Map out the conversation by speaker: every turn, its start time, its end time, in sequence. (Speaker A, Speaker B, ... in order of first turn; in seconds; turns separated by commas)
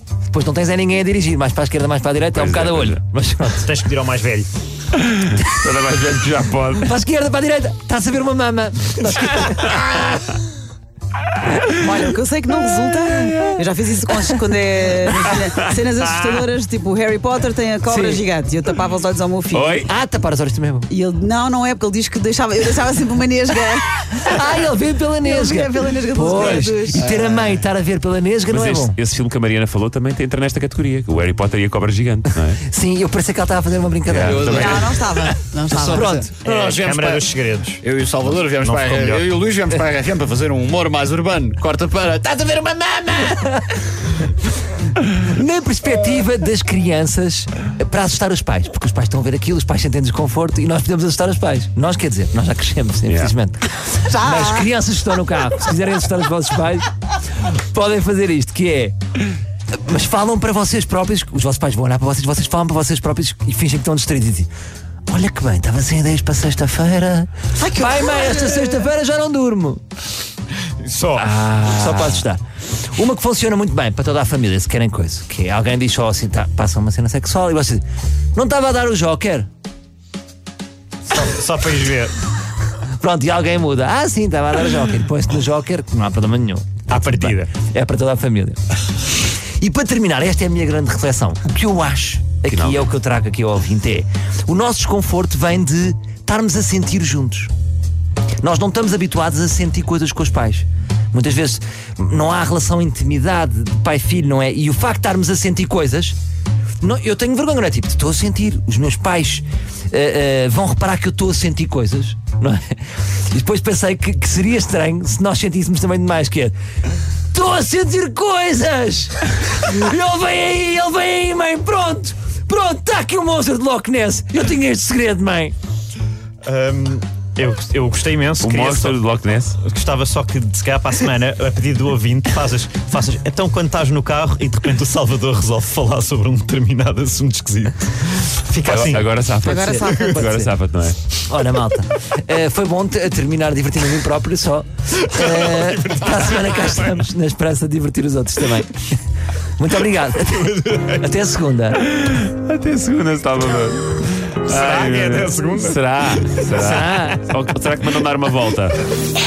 Speaker A: 0.3-3.7, Speaker B: 2.3-3.0, Speaker C: 3.6-4.5, Speaker B: 5.0-7.0, Speaker A: 6.8-10.4, Speaker D: 11.7-19.9, Speaker B: 15.2-15.6, Speaker A: 17.9-18.2, Speaker B: 19.5-19.9, Speaker A: 19.9-20.9, Speaker D: 20.9-24.6, Speaker A: 24.2-29.0, Speaker D: 25.2-27.2, Speaker E: 26.2-27.6, Speaker B: 28.5-32.6, Speaker A: 32.6-34.8, Speaker B: 34.1-34.9, Speaker E: 34.2-43.4, Speaker D: 34.5-36.3, Speaker A: 35.9-36.5, Speaker C: 36.4-39.3, Speaker A: 45.1-59.0, Speaker B: 53.1-53.3, Speaker D: 54.0-54.6, Speaker A: 59.7-64.5, Speaker A: 65.1-69.8, Speaker D: 67.5-68.8, Speaker E: 70.8-71.2, Speaker A: 71.1-72.4, Speaker A: 72.9-77.8, Speaker A: 78.3-79.5, Speaker C: 81.1-82.1, Speaker A: 83.0-88.6, Speaker C: 86.9-87.5, Speaker A: 89.6-97.5, Speaker B: 92.5-92.9, Speaker A: 98.4-106.2, Speaker A: 106.8-116.5, Speaker A: 117.3-125.5, Speaker C: 126.4-129.0, Speaker B: 128.4-129.6, Speaker C: 129.6-139.2, Speaker B: 138.6-141.0, Speaker D: 139.4-140.2, Speaker A: 139.4-140.5, Speaker A: 141.2-148.9, Speaker A: 149.6-151.9, Speaker B: 151.8-158.8, Speaker C: 154.5-155.7, Speaker A: 156.5-157.2